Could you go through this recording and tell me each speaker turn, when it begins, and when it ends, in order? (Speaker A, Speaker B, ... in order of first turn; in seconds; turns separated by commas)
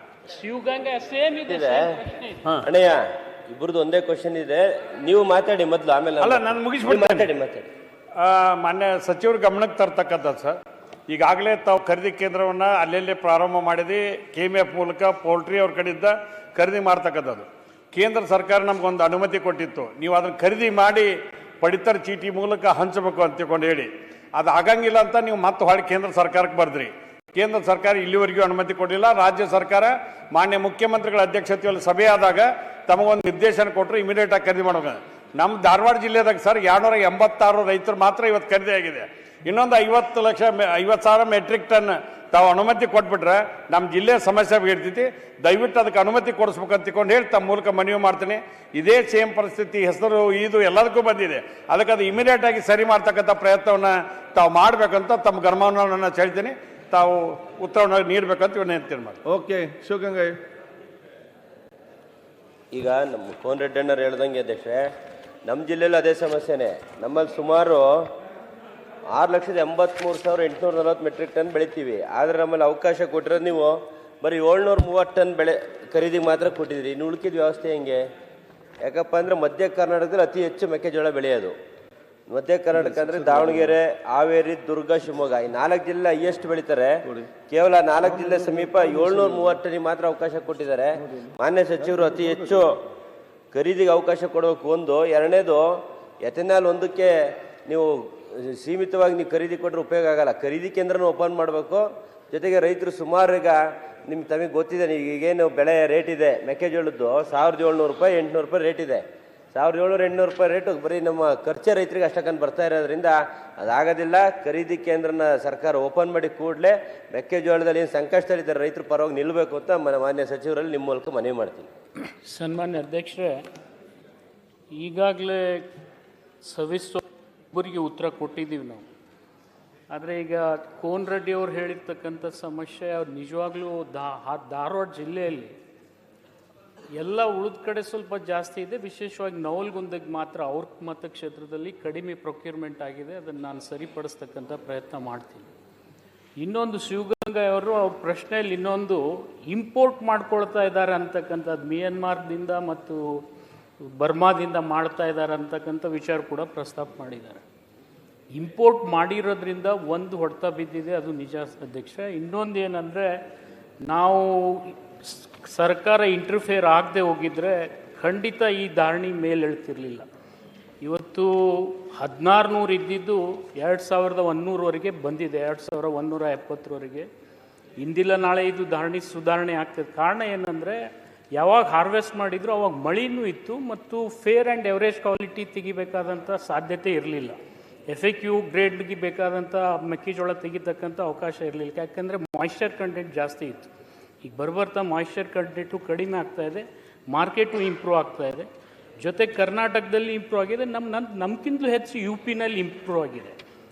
Speaker A: 0.3-2.5, Speaker B: 1.5-2.0, Speaker B: 2.6-7.7, Speaker C: 6.2-7.3, Speaker C: 8.2-10.6, Speaker C: 11.1-59.2, Speaker D: 59.3-60.4, Speaker B: 62.7-64.9, Speaker B: 65.5-68.1, Speaker B: 69.1-78.0, Speaker B: 78.8-81.5, Speaker B: 82.3-92.7, Speaker D: 82.8-83.7, Speaker D: 88.1-89.5, Speaker D: 91.9-92.5, Speaker B: 93.5-121.7, Speaker A: 122.0-123.5, Speaker A: 124.7-125.7, Speaker A: 126.4-128.8, Speaker A: 129.9-135.6, Speaker A: 136.9-145.5, Speaker A: 146.4-153.2, Speaker A: 153.8-157.4, Speaker A: 158.3-163.1, Speaker A: 163.8-170.1, Speaker A: 170.8-177.1, Speaker A: 177.8-180.8, Speaker A: 181.3-187.4, Speaker A: 187.9-193.7, Speaker A: 194.2-198.5, Speaker A: 199.0-203.4